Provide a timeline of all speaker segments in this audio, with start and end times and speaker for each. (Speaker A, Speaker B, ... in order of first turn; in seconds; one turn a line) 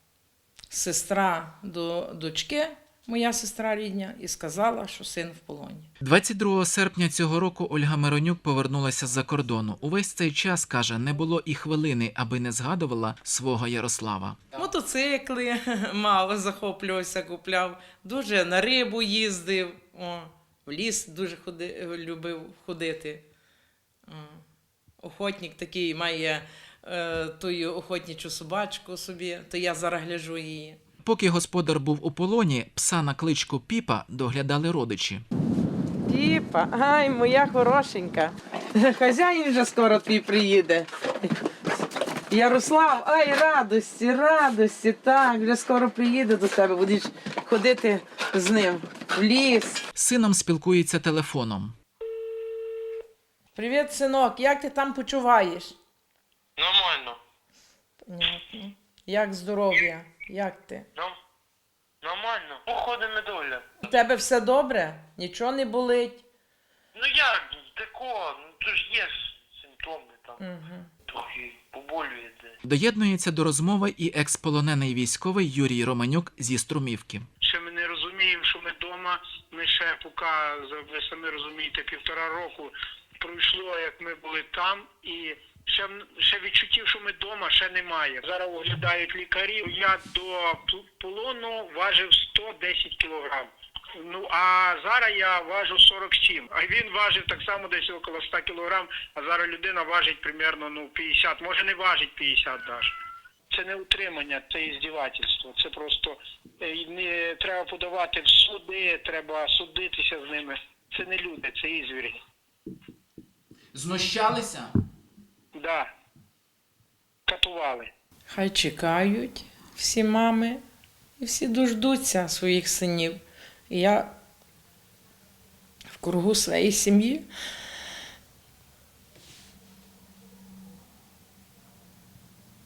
Speaker A: 0.7-5.9
Speaker B: 6.0-14.5
Speaker A: 14.5-23.2
Speaker A: 24.1-24.4
Speaker A: 25.0-30.8
Speaker B: 31.0-35.2
Speaker A: 36.0-41.3
Speaker A: 42.3-49.8
Speaker B: 50.0-51.7
Speaker A: 53.5-55.7
Speaker C: 56.6-57.2
Speaker A: 58.0-60.9
Speaker C: 62.0-63.7
Speaker A: 63.8-66.2
Speaker C: 66.9-70.4
Speaker A: 70.4-70.9
Speaker C: 71.1-72.5
Speaker B: 72.6-77.3
Speaker D: 77.4-102.9
Speaker D: 103.5-112.2
Speaker B: 113.7-114.7
Speaker D: 115.5-115.9
Speaker D: 117.3-117.9
Speaker A: 118.3-120.6
Speaker A: 121.2-124.1
Speaker A: 125.9-127.2